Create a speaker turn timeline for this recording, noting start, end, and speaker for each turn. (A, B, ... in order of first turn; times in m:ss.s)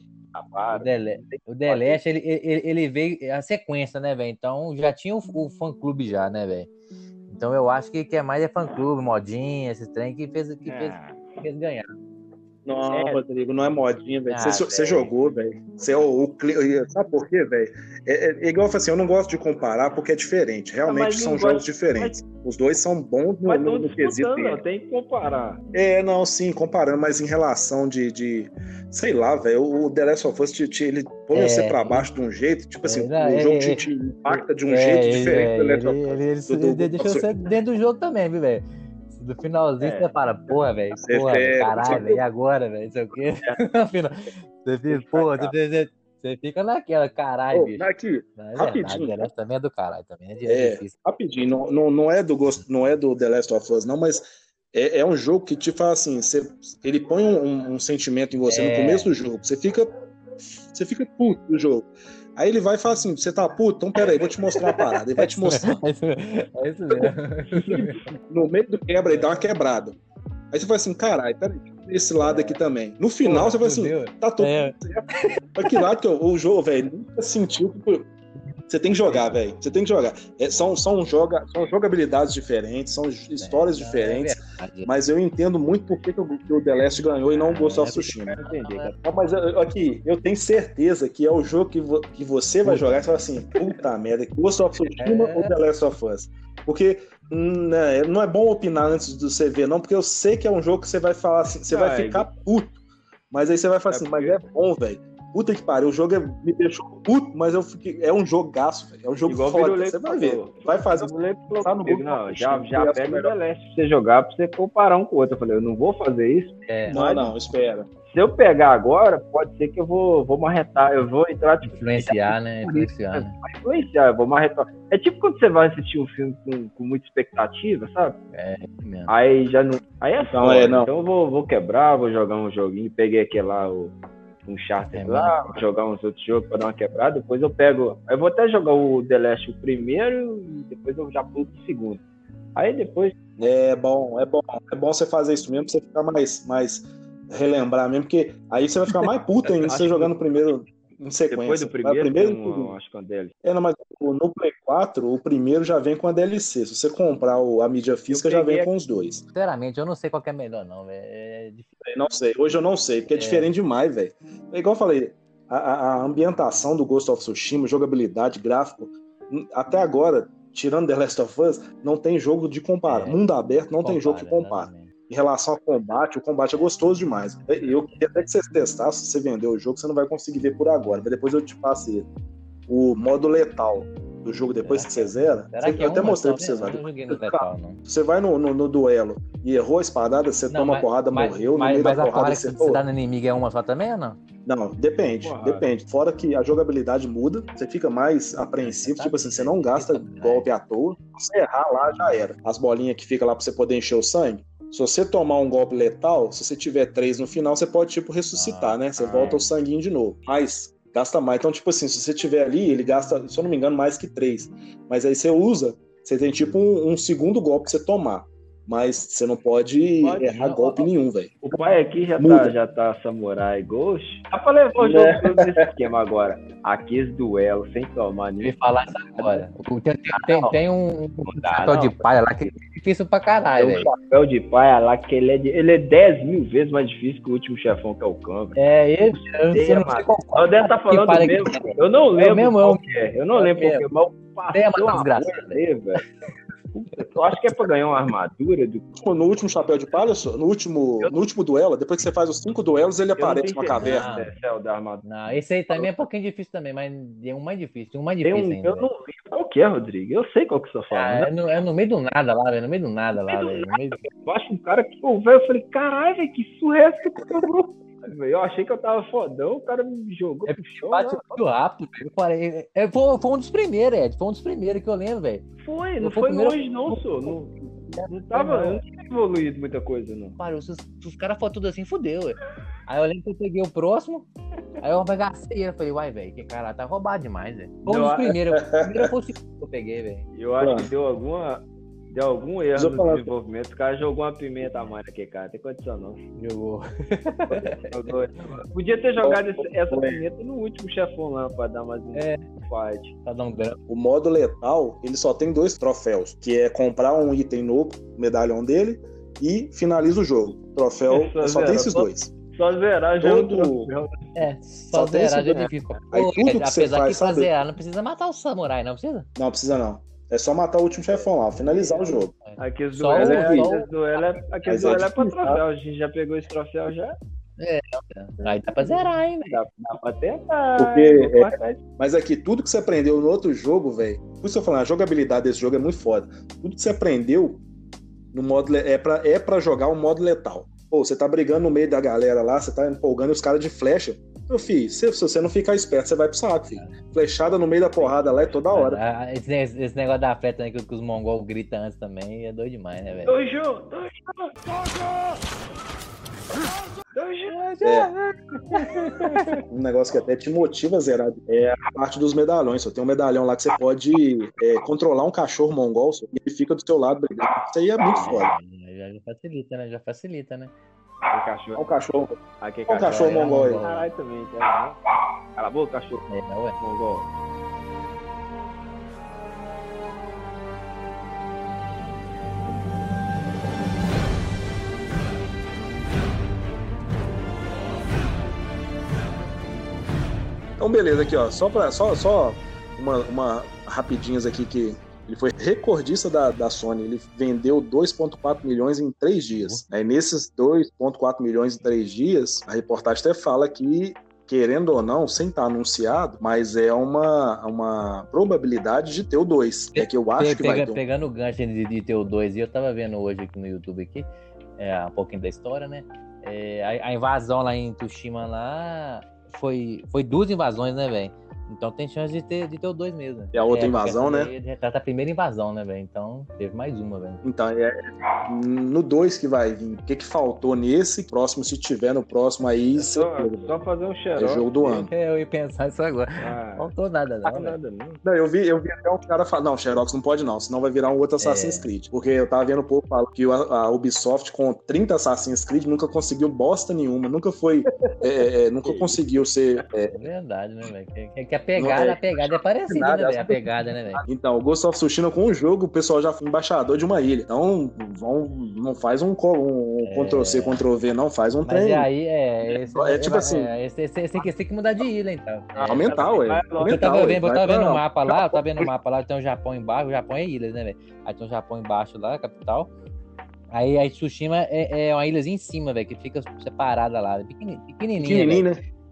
0:00.3-0:02.0 A
0:00.7-0:06.7 B
0:07.3-0:11.9 B
0:10.6-0:11.2 A
0:12.6-0:24.6 C
0:12.9-0:13.2 A
0:14.3-0:15.1 B
0:20.8-0:22.2 A
0:23.4-0:25.6 A
0:25.7-0:37.3 C
0:31.3-0:32.1 B
0:32.8-0:33.8 B
0:34.6-0:47.8 B
0:39.8-0:40.1 A
0:41.0-0:42.2 C
0:44.9-0:45.5 C
0:47.5-0:49.3 C
0:48.4-0:50.9 B
0:50.4-0:59.9 C
0:58.5-0:59.1 B
1:00.7-1:05.8 C
1:05.2-1:08.0 B
1:07.5-1:08.0 A
1:08.3-1:10.0 C
1:10.5-1:18.1 C
1:13.2-1:15.8 B
1:18.7-1:28.4 C
1:23.4-1:24.9 B
1:27.5-1:28.9 B
1:27.8-1:29.0 A
1:29.0-1:42.8 C
1:32.6-1:33.2 B
1:35.0-1:35.5 B
1:41.7-1:42.3 A
1:43.3-1:53.3 C
1:43.9-1:44.4 A
1:49.2-1:57.3 A
1:56.7-1:57.0 B
1:56.9-1:57.9 C
1:58.1-2:08.2 A
2:01.6-2:03.3 B
2:08.3-2:09.1 B
2:09.1-2:13.9 A
2:10.3-2:10.9 C
2:14.4-2:22.0 A
2:14.9-2:15.5 B
2:22.6-2:23.1 A
2:23.4-2:32.7 C
2:29.6-2:30.5 A
2:31.3-2:33.3 A
2:33.4-2:39.2 C
2:38.1-2:38.7 A
2:39.3-2:41.7 B
2:41.8-3:02.1 C
2:43.1-2:43.5 B
2:52.9-2:53.2 B
2:53.8-2:54.9 B
3:02.7-3:12.8 C
3:04.6-3:07.8 B
3:10.5-3:14.2 B
3:14.4-3:41.6 C
3:15.2-3:15.7 A
3:18.6-3:20.4 B
3:28.3-3:29.4 B
3:29.0-3:29.4 A
3:40.0-3:40.8 A
3:41.4-3:48.5 A
3:42.2-3:42.5 C
3:44.8-3:45.6 C
3:48.4-3:53.9 B
3:49.2-3:49.5 A
3:50.1-3:50.6 A
3:51.2-3:52.0 A
3:53.6-3:58.6 A
3:58.6-4:02.8 B
3:59.5-4:06.0 A
4:03.3-4:03.8 B
4:04.5-4:05.6 B
4:06.7-4:08.9 A
4:09.0-4:14.1 C
4:13.2-4:15.0 A
4:13.7-4:14.3 B
4:15.0-4:18.9 B
4:18.2-4:21.3 A
4:20.9-4:24.0 B
4:23.3-4:31.4 A
4:30.5-4:35.4 B
4:35.6-4:37.5 A
4:36.0-4:37.0 B
4:37.7-4:38.8 B
4:38.1-4:40.4 A
4:40.4-4:44.3 B
4:44.8-4:50.2 B
4:47.9-4:48.2 A
4:47.9-4:49.1 C
4:50.3-4:56.2 A
4:50.6-4:50.9 C
4:52.7-4:53.3 C
4:56.4-4:57.9 B
4:57.5-5:03.1 A
4:59.2-5:00.2 C
5:02.1-5:02.4 B
5:03.2-5:03.8 B
5:03.9-5:12.3 C
5:11.1-5:14.3 A
5:13.2-5:13.9 C
5:14.4-5:19.3 B
5:14.9-5:17.5 C
5:19.4-5:22.3 C
5:21.5-5:24.4 B
5:22.6-5:27.2 A
5:23.1-5:23.7 C
5:24.6-5:25.6 C
5:27.6-5:29.6 B
5:28.8-5:31.8 A
5:30.8-5:37.6 C
5:38.3-5:49.0 C
5:46.7-5:47.0 B
5:48.0-5:48.7 A
5:48.7-5:53.3 B
5:53.2-5:54.5 A
5:57.1-5:57.7 A
5:57.5-5:58.2 B
5:57.8-5:58.1 C
5:58.7-5:59.6 A
5:59.7-6:08.5 C
6:08.1-6:08.4 A
6:08.2-6:10.7 B
6:11.3-6:11.9 A
6:11.7-6:13.8 C
6:12.6-6:15.0 A
6:13.0-6:14.1 B
6:15.6-6:16.3 A
6:16.3-6:16.8 B
6:16.8-6:17.3 A
6:30.8-6:51.0 C
6:49.9-7:07.4 B
7:03.5-7:04.5 C
7:07.4-7:13.7 C
7:12.9-7:14.7 A
7:14.4-7:15.1 C
7:14.8-7:17.8 B
7:16.4-7:16.9 A
7:17.4-7:18.2 A
7:18.2-7:30.2 C
7:21.4-7:21.9 B
7:28.8-7:29.2 A
7:30.1-7:34.2 B
7:31.8-7:33.6 C
7:34.2-7:42.1 C
7:40.0-7:40.8 B
7:41.6-7:46.2 B
7:42.9-7:43.7 C
7:45.8-7:47.1 A
7:45.8-7:48.8 C
7:46.8-7:52.9 B
7:53.7-7:58.7 B
7:58.2-7:58.8 C